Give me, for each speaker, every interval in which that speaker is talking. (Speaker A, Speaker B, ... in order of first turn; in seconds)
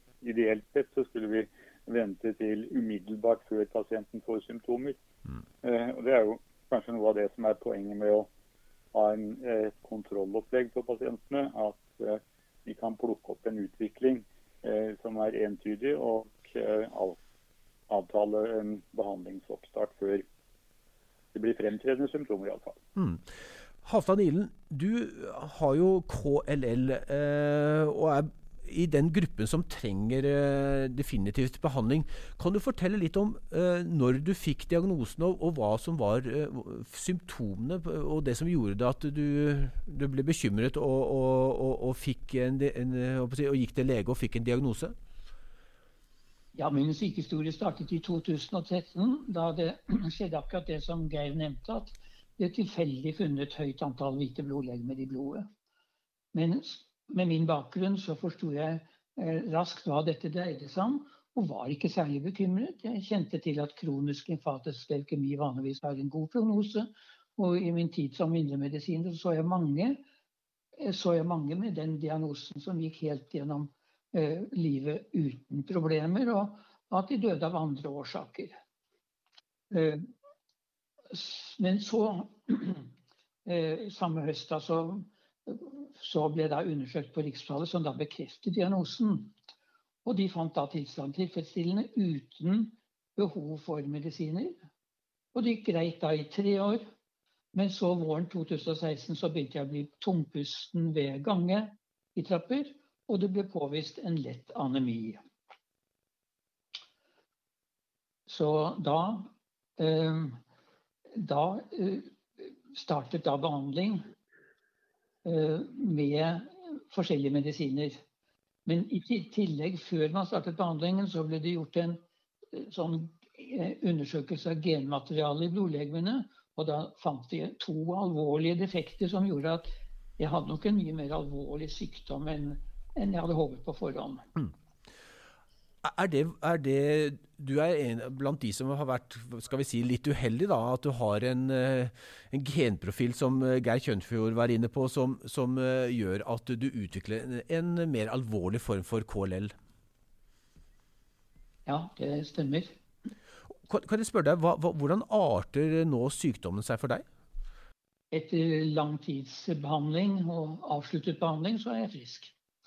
Speaker A: 0.2-5.0, 5.6-8.3, 8.9-17.2, 17.9-20.2, 21.3-22.8
Speaker B: 23.0-23.3, 23.8-45.0, 135.8-149.5, 153.7-157.1
Speaker C: 46.5-55.5, 56.3-70.0, 70.8-78.6, 79.7-80.1, 81.1-82.9, 83.5-89.3, 90.0-94.6, 95.3-96.8, 97.5-105.2, 108.3-110.4, 111.2-114.1, 115.2-118.0, 118.7-122.0, 122.5-134.2, 151.7-152.7, 158.1-162.3